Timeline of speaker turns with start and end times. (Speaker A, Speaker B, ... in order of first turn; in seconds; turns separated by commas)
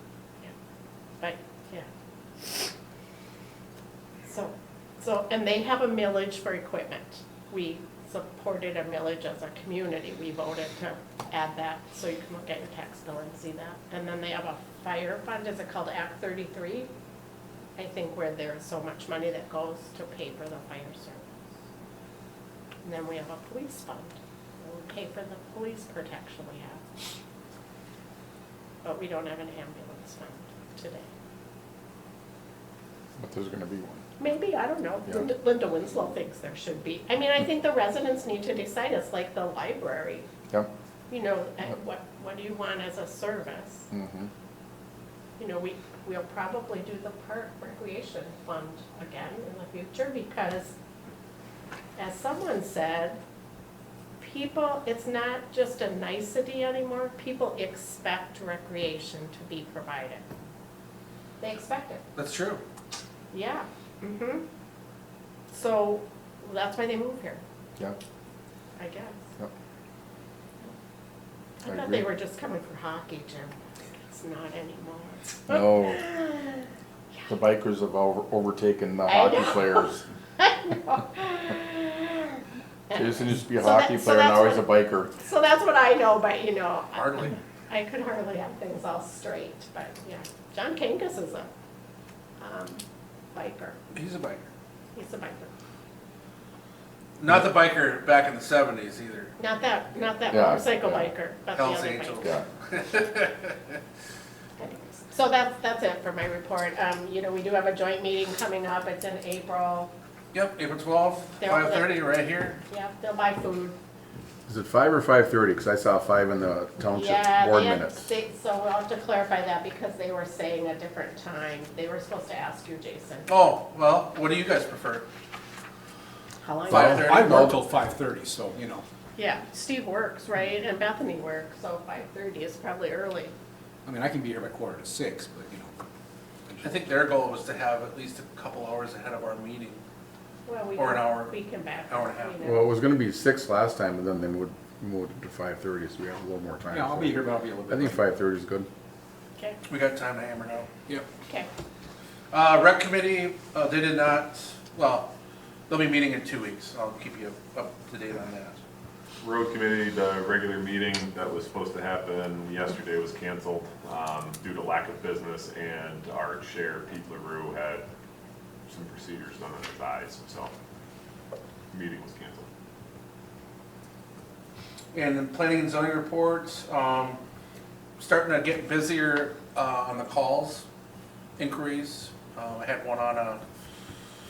Speaker A: 1.2-1.9, Speaker A: 4.3-16.9, Speaker A: 17.8-21.3, Speaker A: 22.8-26.8, Speaker A: 28.8-31.1, Speaker B: 33.2-34.0, Speaker A: 34.2-40.3, Speaker A: 41.1-43.9, Speaker B: 43.9-44.3, Speaker A: 45.4-50.7, Speaker A: 52.0-53.2, Speaker A: 54.2-60.2, Speaker A: 61.4-62.0, Speaker C: 62.2-62.6, Speaker A: 63.3-64.4, Speaker A: 65.5-67.4, Speaker A: 68.8-69.2, Speaker A: 71.6-73.5, Speaker B: 71.7-72.0, Speaker A: 74.1-77.3, Speaker B: 75.5-76.0, Speaker B: 77.3-80.0, Speaker A: 79.1-91.5, Speaker B: 82.9-85.1, Speaker C: 86.9-87.3, Speaker A: 92.4-92.8, Speaker A: 93.3-93.8, Speaker C: 94.0-94.5, Speaker A: 94.9-95.5, Speaker C: 97.2-99.3, Speaker A: 99.4-102.3, Speaker B: 100.3-101.1, Speaker C: 101.5-103.8, Speaker A: 104.6-109.9, Speaker C: 110.3-112.6, Speaker A: 111.4-112.0, Speaker A: 112.7-113.8, Speaker B: 114.5-118.0, Speaker A: 116.9-123.3, Speaker C: 123.3-125.1, Speaker A: 126.4-127.2, Speaker C: 126.7-127.4, Speaker B: 126.7-127.6, Speaker D: 127.0-128.8, Speaker A: 129.2-133.3, Speaker D: 133.8-135.7, Speaker C: 136.6-139.8, Speaker A: 140.5-142.7, Speaker C: 140.8-141.3, Speaker C: 141.9-142.4, Speaker B: 142.4-148.7, Speaker D: 146.7-148.0, Speaker C: 149.7-150.7, Speaker C: 152.3-155.1, Speaker C: 155.7-158.6, Speaker E: 159.2-167.8, Speaker E: 168.7-170.5, Speaker E: 171.7-172.5, Speaker C: 174.9-177.2, Speaker C: 178.0-180.7, Speaker C: 181.4-183.4